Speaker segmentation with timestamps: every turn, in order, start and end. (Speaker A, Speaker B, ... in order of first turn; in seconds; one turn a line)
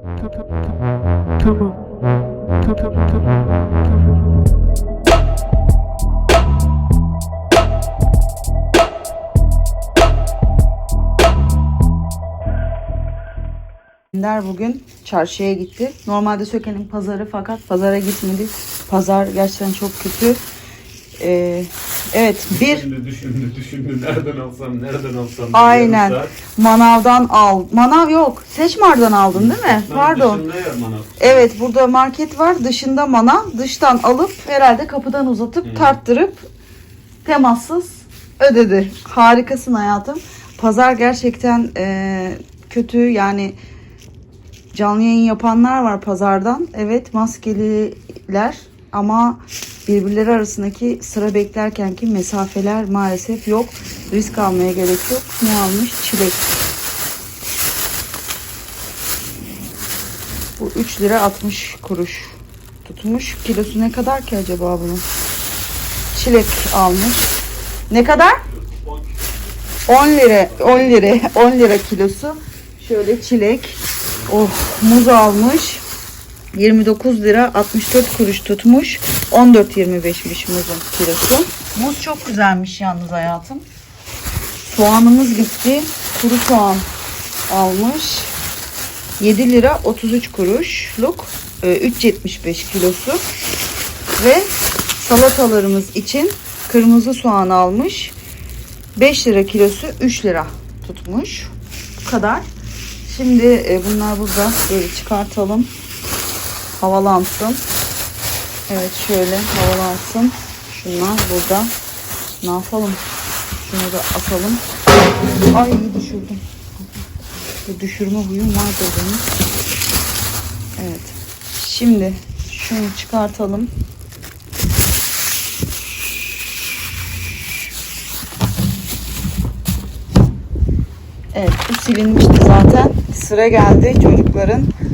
Speaker A: 14.1-20.4
Speaker A: 21.2-22.9
Speaker B: 22.5-26.4
Speaker A: 25.5-30.4
Speaker B: 29.3-31.5
Speaker A: 31.2-36.5
Speaker B: 35.6-36.0
Speaker A: 37.2-43.5
Speaker A: 44.7-56.5
Speaker A: 60.6-65.0
Speaker A: 66.1-67.3
Speaker A: 67.9-68.4
Speaker B: 68.5-69.2
Speaker A: 69.9-75.8
Speaker B: 70.2-70.9
Speaker A: 76.5-83.6
Speaker A: 84.7-86.9
Speaker A: 87.5-88.3
Speaker A: 89.2-93.2
Speaker A: 94.2-98.2
Speaker A: 99.0-102.5
Speaker A: 103.0-105.7
Speaker A: 106.8-107.6
Speaker A: 108.7-111.7
Speaker A: 112.4-113.0
Speaker A: 113.6-114.6
Speaker A: 115.5-116.4
Speaker A: 117.7-119.2
Speaker A: 120.8-123.7
Speaker A: 131.3-134.7